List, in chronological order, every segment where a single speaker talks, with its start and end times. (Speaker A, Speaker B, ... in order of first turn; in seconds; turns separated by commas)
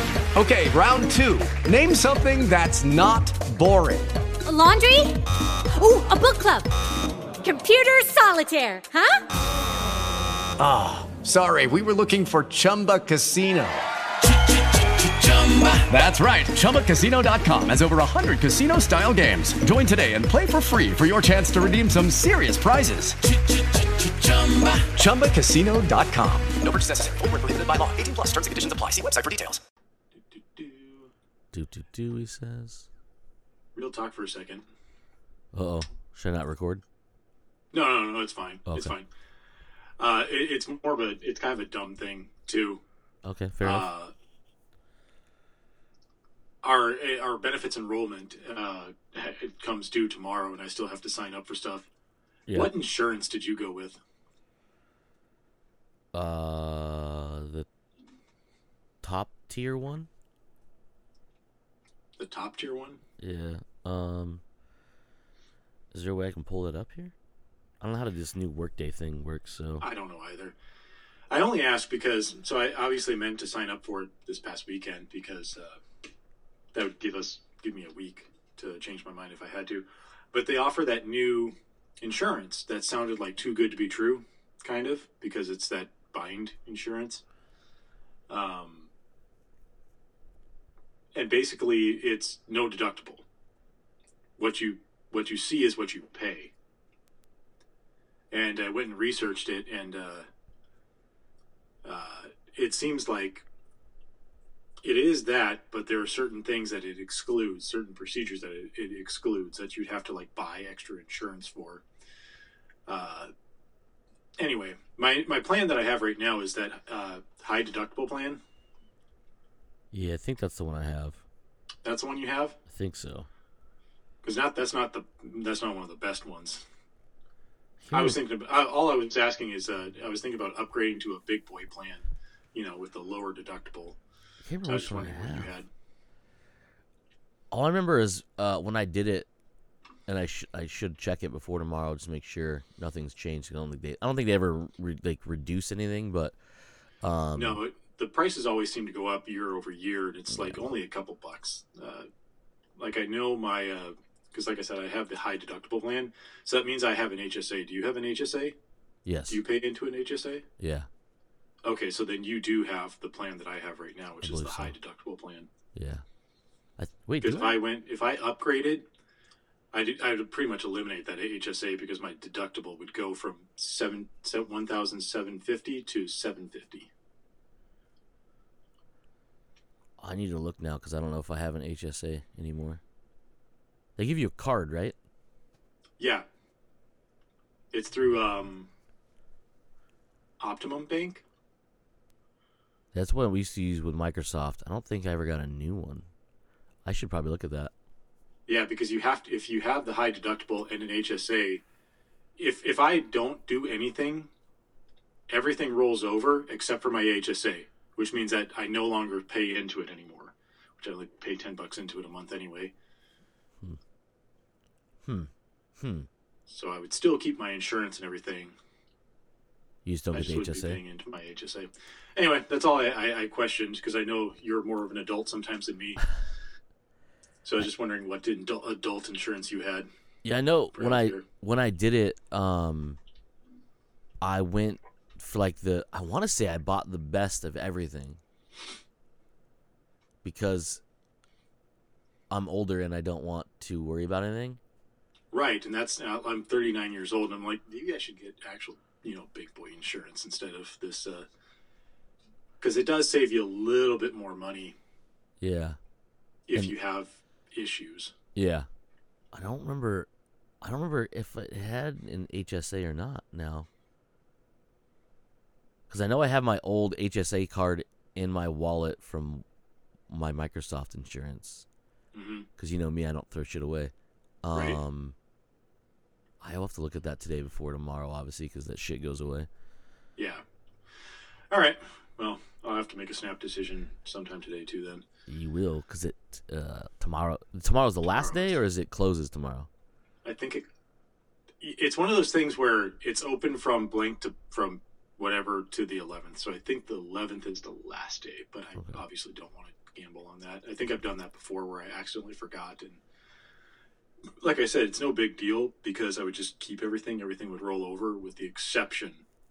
Speaker A: 0.3-4.2, Speaker B: 4.5-5.2, Speaker B: 5.7-6.7, Speaker B: 7.4-9.2, Speaker A: 10.6-13.8, Speaker A: 14.8-23.4, Speaker A: 24.0-26.5, Speaker C: 26.6-29.6, Speaker D: 30.3-31.1, Speaker E: 31.5-32.9, Speaker D: 33.8-34.6, Speaker E: 35.5-36.8, Speaker D: 37.7-39.1, Speaker E: 38.7-38.9, Speaker D: 40.0-42.8, Speaker E: 43.2-43.9, Speaker D: 43.6-44.1, Speaker D: 46.6-51.9, Speaker D: 52.5-54.0, Speaker E: 56.1-57.7, Speaker E: 59.0-60.1, Speaker D: 62.2-63.0, Speaker E: 63.2-64.4, Speaker E: 65.9-67.1, Speaker E: 67.8-69.8, Speaker D: 69.8-70.5, Speaker D: 71.3-75.8, Speaker D: 76.7-87.2, Speaker D: 88.3-88.9, Speaker D: 91.1-93.2, Speaker D: 94.4-96.5, Speaker D: 98.3-100.3, Speaker D: 101.8-103.4, Speaker D: 104.8-111.8, Speaker D: 112.9-113.3, Speaker D: 114.4-118.4, Speaker E: 119.9-121.2, Speaker D: 121.8-122.6, Speaker E: 122.7-123.3, Speaker D: 124.2-126.7, Speaker E: 127.8-128.2, Speaker D: 127.9-134.0, Speaker E: 134.4-135.5, Speaker D: 134.7-135.7, Speaker E: 137.5-139.3, Speaker E: 140.1-146.3, Speaker E: 147.0-147.6, Speaker D: 147.3-152.1, Speaker E: 150.3-150.6, Speaker D: 152.8-158.5, Speaker E: 159.0-159.4, Speaker D: 159.3-160.4, Speaker E: 160.6-160.9, Speaker D: 161.6-165.5, Speaker E: 164.2-164.7, Speaker E: 165.8-166.0, Speaker E: 166.8-167.6, Speaker D: 167.2-168.9, Speaker D: 169.7-176.9, Speaker E: 180.0-182.8, Speaker E: 184.0-184.9, Speaker D: 186.0-186.2, Speaker D: 187.7-188.7, Speaker D: 190.4-191.2, Speaker E: 192.9-196.1, Speaker E: 196.8-197.7, Speaker D: 198.5-201.6, Speaker D: 202.4-204.3, Speaker D: 205.3-212.7, Speaker E: 215.0-216.1, Speaker D: 216.5-218.5, Speaker E: 219.8-220.8, Speaker D: 220.1-226.1, Speaker D: 227.4-229.9, Speaker E: 230.2-233.0, Speaker D: 230.8-231.2, Speaker E: 234.2-238.2, Speaker E: 240.2-240.8, Speaker E: 242.3-244.6, Speaker D: 245.3-251.2, Speaker D: 252.6-254.8, Speaker E: 255.4-255.8, Speaker D: 256.5-258.1, Speaker E: 258.3-258.7, Speaker E: 259.3-260.1, Speaker E: 260.6-263.7, Speaker E: 265.9-269.4, Speaker E: 270.1-271.6, Speaker D: 272.1-272.5, Speaker E: 272.6-275.1, Speaker E: 276.4-279.5, Speaker D: 280.2-280.4, Speaker D: 281.5-285.0, Speaker E: 285.3-289.7, Speaker D: 288.1-288.6, Speaker D: 290.2-290.6, Speaker D: 291.6-303.0, Speaker D: 304.4-309.2